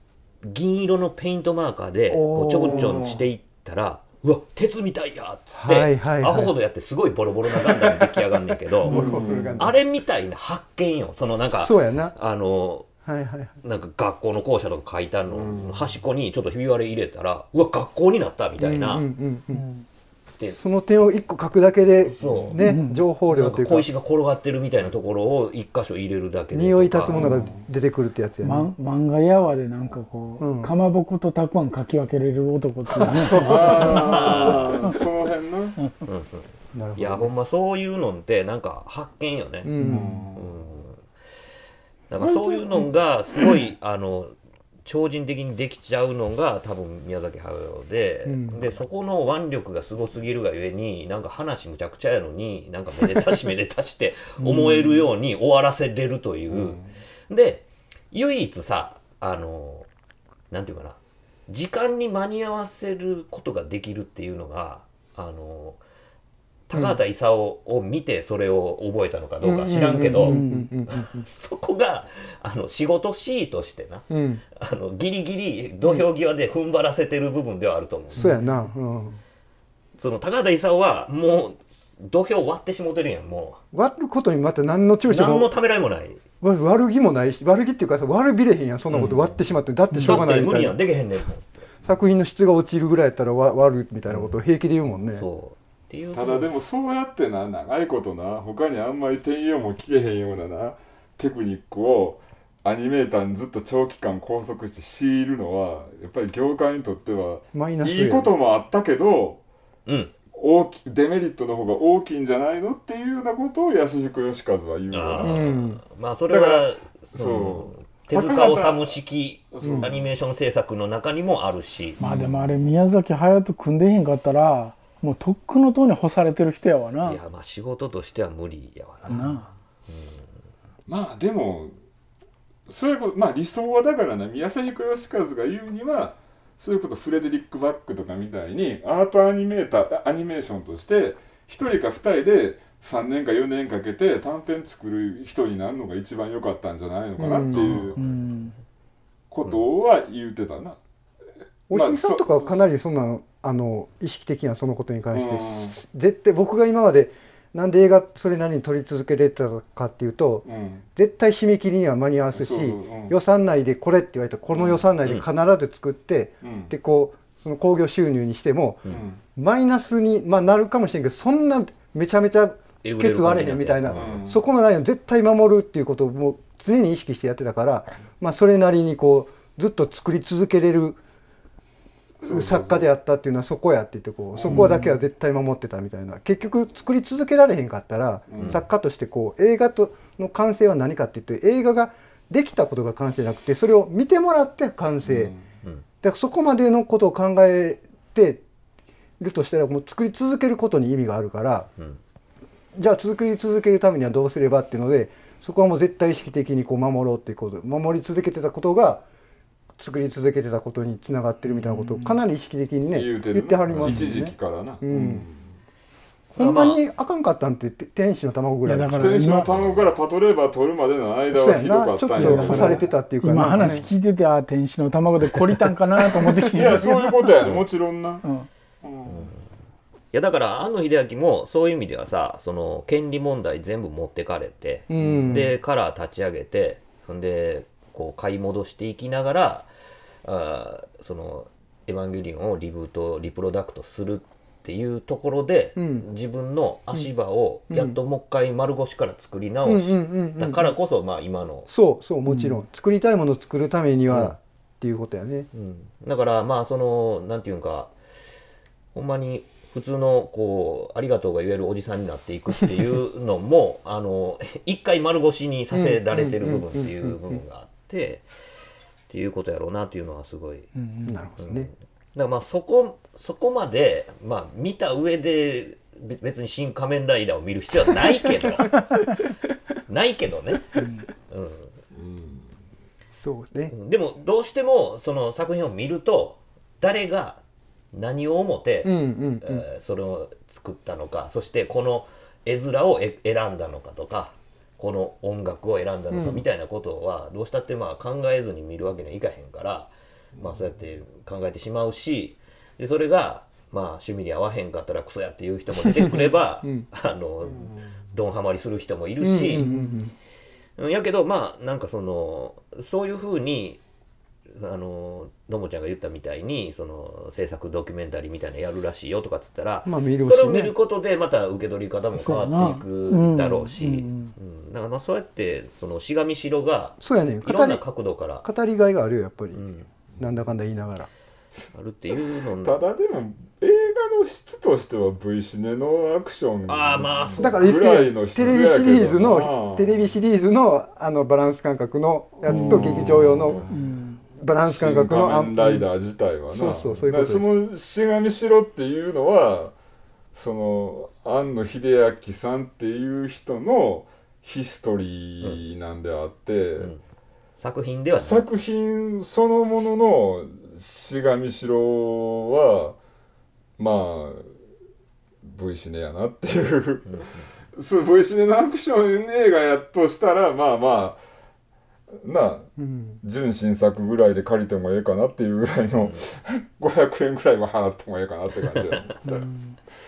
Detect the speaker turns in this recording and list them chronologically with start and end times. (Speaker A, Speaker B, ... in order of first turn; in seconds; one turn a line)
Speaker A: 0.4-12.9
Speaker B: 2.1-3.2
Speaker C: 2.6-3.1
Speaker B: 5.5-6.5
Speaker B: 7.5-9.8
Speaker D: 8.9-9.2
Speaker C: 8.9-9.6
Speaker B: 11.4-12.1
Speaker B: 13.0-13.6
Speaker A: 13.6-19.1
Speaker C: 15.3-15.9
Speaker B: 18.6-19.7
Speaker D: 19.5-19.8
Speaker B: 20.5-23.9
Speaker A: 22.2-22.6
Speaker D: 22.6-23.0
Speaker A: 23.3-27.3
Speaker B: 26.5-28.7
Speaker C: 27.1-27.6
Speaker D: 28.4-34.8
Speaker B: 30.4-30.7
Speaker B: 33.0-34.3
Speaker C: 33.1-35.8
Speaker A: 33.8-34.7
Speaker A: 36.0-39.7
Speaker B: 36.7-37.3
Speaker B: 39.6-40.2
Speaker C: 39.8-40.5
Speaker A: 40.3-41.0
Speaker A: 42.1-59.9
Speaker C: 42.2-42.9
Speaker B: 48.2-48.6
Speaker D: 54.4-55.0
Speaker C: 56.5-56.9
Speaker A: 60.5-65.8
Speaker A: 66.7-70.4
Speaker B: 69.4-71.2
Speaker D: 70.1-70.7
Speaker A: 70.9-78.3
Speaker B: 74.1-74.4
Speaker B: 78.1-79.2
Speaker A: 80.0-83.6
Speaker B: 83.7-85.5
Speaker A: 85.1-86.2
Speaker B: 86.4-90.8
Speaker A: 88.9-89.4
Speaker D: 89.9-90.3
Speaker A: 90.0-91.7
Speaker B: 91.8-95.2
Speaker A: 94.1-94.4
Speaker A: 95.1-96.5
Speaker C: 96.1-109.4
Speaker B: 107.5-108.3
Speaker A: 109.9-110.1
Speaker C: 110.3-115.4
Speaker A: 114.9-122.0
Speaker B: 115.2-115.8
Speaker C: 116.3-119.0
Speaker C: 119.5-120.1
Speaker B: 119.6-119.9
Speaker D: 122.0-127.2
Speaker C: 122.0-122.7
Speaker A: 127.0-130.3
Speaker D: 129.1-129.5
Speaker C: 130.9-131.7
Speaker C: 132.7-148.0
Speaker B: 147.2-147.9
Speaker A: 147.5-148.2
Speaker D: 148.0-148.5
Speaker C: 149.3-150.8
Speaker C: 151.7-152.6
Speaker B: 151.7-181.0
Speaker C: 155.1-155.8
Speaker C: 160.4-160.8
Speaker C: 162.3-163.1
Speaker C: 164.5-164.8
Speaker C: 166.4-166.7
Speaker C: 168.9-169.2
Speaker A: 172.8-174.2
Speaker C: 173.9-174.4
Speaker B: 182.2-195.3
Speaker C: 182.2-182.9
Speaker C: 184.3-184.8
Speaker D: 184.5-184.9
Speaker C: 188.3-188.6
Speaker A: 188.4-188.6
Speaker C: 195.0-195.4
Speaker B: 196.0-198.4
Speaker B: 199.2-201.7
Speaker B: 202.7-209.0
Speaker B: 209.8-215.2
Speaker D: 211.5-212.2
Speaker C: 212.9-215.4
Speaker B: 216.3-219.3
Speaker A: 216.3-216.8
Speaker D: 218.7-219.5
Speaker C: 218.9-222.8
Speaker A: 219.5-219.9
Speaker B: 221.3-223.8
Speaker D: 222.2-227.4
Speaker C: 226.0-228.2
Speaker A: 227.4-227.7
Speaker C: 228.8-229.3
Speaker A: 229.1-229.4
Speaker A: 230.1-239.7
Speaker B: 234.9-235.6
Speaker A: 240.2-251.7
Speaker B: 245.8-246.0
Speaker B: 247.7-248.0
Speaker B: 249.6-250.7
Speaker B: 251.7-255.5
Speaker A: 254.1-254.3
Speaker A: 255.5-257.9
Speaker A: 258.9-268.2
Speaker B: 265.7-267.4
Speaker A: 269.1-270.7
Speaker D: 270.8-271.1
Speaker B: 271.0-271.7
Speaker A: 271.4-278.7
Speaker A: 279.9-281.7
Speaker D: 280.8-281.1
Speaker C: 281.9-282.4
Speaker B: 283.1-283.7
Speaker A: 283.7-287.4
Speaker A: 287.9-309.7
Speaker B: 288.8-289.6
Speaker B: 296.1-296.4
Speaker C: 300.4-300.7
Speaker B: 305.9-306.9
Speaker C: 307.4-307.8
Speaker B: 309.2-310.1
Speaker D: 309.6-309.9
Speaker A: 310.8-313.8
Speaker A: 314.5-328.5
Speaker B: 319.9-320.7
Speaker D: 322.2-324.3
Speaker B: 327.0-327.8
Speaker B: 328.4-329.6
Speaker A: 329.5-329.9
Speaker B: 330.2-331.1
Speaker A: 331.7-332.8
Speaker C: 332.6-340.0
Speaker A: 336.6-337.6
Speaker B: 337.4-343.6
Speaker C: 342.4-343.6
Speaker D: 342.5-343.0
Speaker A: 343.4-343.7
Speaker D: 343.7-344.2
Speaker B: 344.4-345.6
Speaker C: 344.6-349.7
Speaker B: 346.5-347.4
Speaker C: 350.3-356.9
Speaker A: 357.6-358.5
Speaker C: 358.2-363.0
Speaker C: 363.8-364.5
Speaker C: 365.4-371.2
Speaker A: 367.1-367.5
Speaker C: 372.2-372.7
Speaker B: 372.8-373.2
Speaker C: 373.2-379.4
Speaker A: 376.0-376.3
Speaker D: 379.2-379.8